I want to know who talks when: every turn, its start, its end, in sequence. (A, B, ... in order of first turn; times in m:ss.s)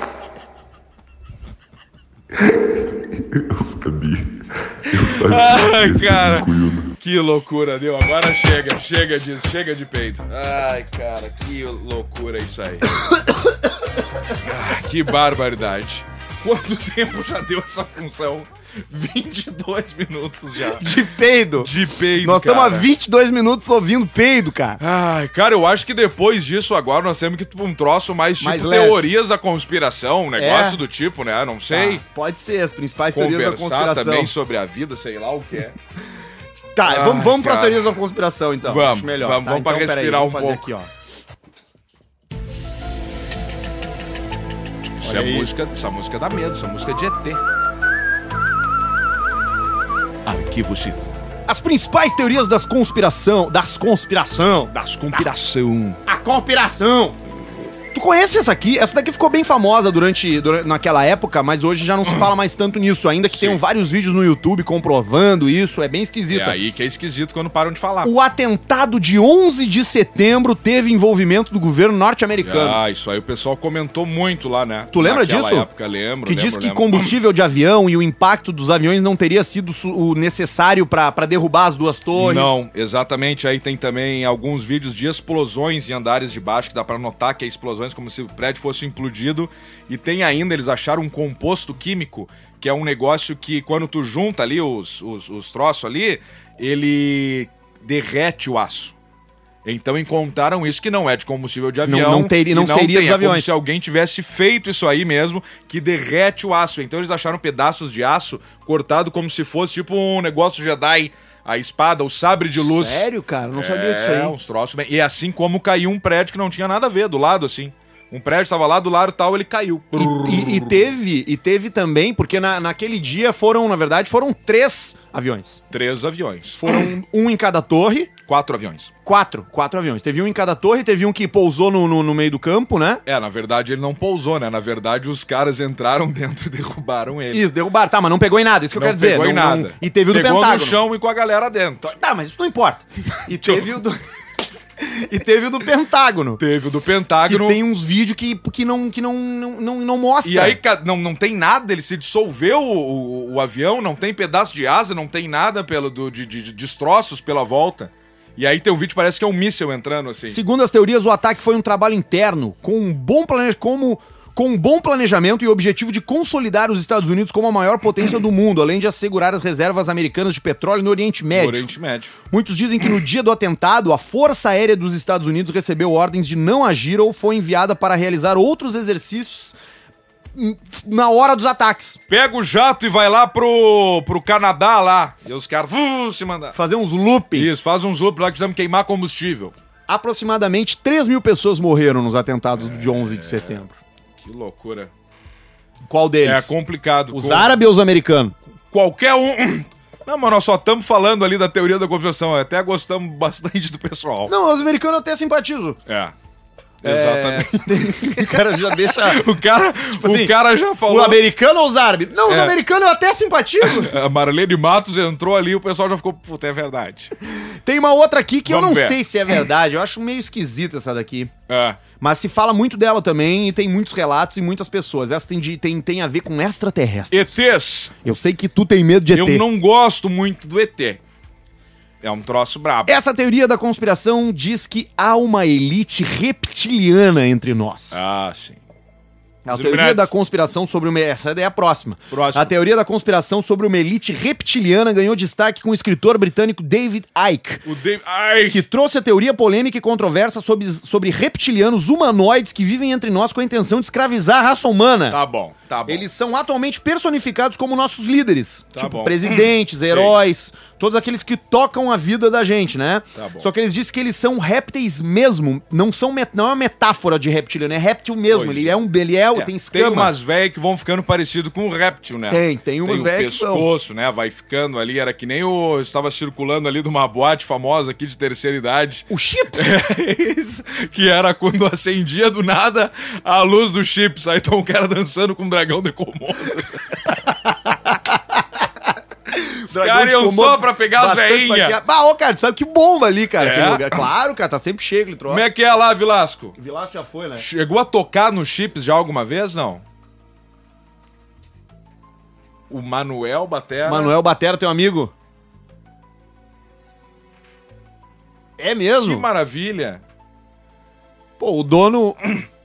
0:02.3-0:06.9 A
0:05.0-0:12.9 B
0:14.4-0:20.9 B
0:20.8-0:24.8 C
0:21.6-0:22.9 B
0:24.8-0:32.0 B
0:28.4-0:29.0 C
0:30.4-0:30.8 C
0:31.7-0:34.3 C
0:33.1-0:35.8 B
0:36.8-0:40.9 C
0:36.8-0:38.0 B
0:38.6-0:40.7 B
0:45.0-0:47.4 B
0:45.0-0:45.5 C
0:50.2-0:51.1 B
0:51.5-0:55.2 C
0:54.7-0:56.0 B
0:56.1-0:57.2 C
0:57.9-1:06.6 C
1:03.3-1:03.6 B
1:06.3-1:08.1 B
1:08.0-1:12.8 C
1:12.4-1:17.1 B
1:14.9-1:15.7 C
1:16.2-1:22.6 C
1:22.2-1:38.9 B
1:39.6-2:00.9 B
1:41.8-1:43.6 C
1:52.6-1:54.4 C
2:00.0-2:05.6 C
2:05.7-2:06.9 B
2:06.6-2:08.1 C
2:08.3-2:08.9 B
2:09.0-2:13.0 C
2:13.1-2:17.5 B
2:17.3-2:20.8 C
2:18.7-2:21.9 B
2:21.8-2:24.0 C
2:23.4-2:23.7 B
2:24.8-2:26.4 C
2:26.4-2:27.6 B
2:27.2-2:30.6 C
2:30.2-2:40.4 B
2:40.3-2:51.7 C
2:51.3-2:52.2 B
2:52.3-2:59.6 C
3:00.4-3:02.0 C
3:02.1-3:06.6 B
3:06.5-3:07.5 C
3:07.3-3:09.5 B
3:09.9-3:13.8 C
3:12.6-3:13.6 B
3:14.2-3:14.9 B
3:15.9-3:16.5 C
3:16.2-3:17.6 B
3:17.1-3:18.4 C
3:18.7-3:24.3 B
3:24.3-3:25.8 C
3:25.9-3:26.2 B
3:26.8-3:31.2 B
3:26.8-3:29.2 C
3:29.9-3:30.3 C
3:30.8-3:33.9 C
3:32.3-3:32.6 B
3:33.6-3:37.1 B
3:37.6-3:41.3 C
3:38.4-3:39.0 B
3:41.5-3:41.8 B
3:42.0-3:49.4 C
3:47.1-3:48.0 B
3:49.1-3:51.0 B
3:52.0-3:53.0 B
3:52.9-3:58.0 C
3:57.9-3:58.6 B
3:59.5-4:07.6 C
3:59.5-4:00.1 B
4:02.1-4:02.6 B
4:07.6-4:08.6 B
4:08.5-4:15.2 C
4:15.1-4:16.1 B
4:15.9-4:30.1 C
4:18.7-4:20.2 B
4:23.2-4:23.5 B
4:28.3-4:28.8 B
4:29.3-4:47.2 B
4:32.3-4:33.7 C
4:39.1-4:39.8 C
4:49.7-4:55.5 C
4:49.7-4:51.8 B
4:53.4-4:54.0 B
4:55.3-4:56.6 B
4:56.6-4:57.5 C
4:57.4-4:59.8 B
5:02.7-5:04.1 B
5:03.8-5:05.1 C
5:08.6-5:09.3 C
5:09.0-5:10.0 B
5:11.4-5:12.2 C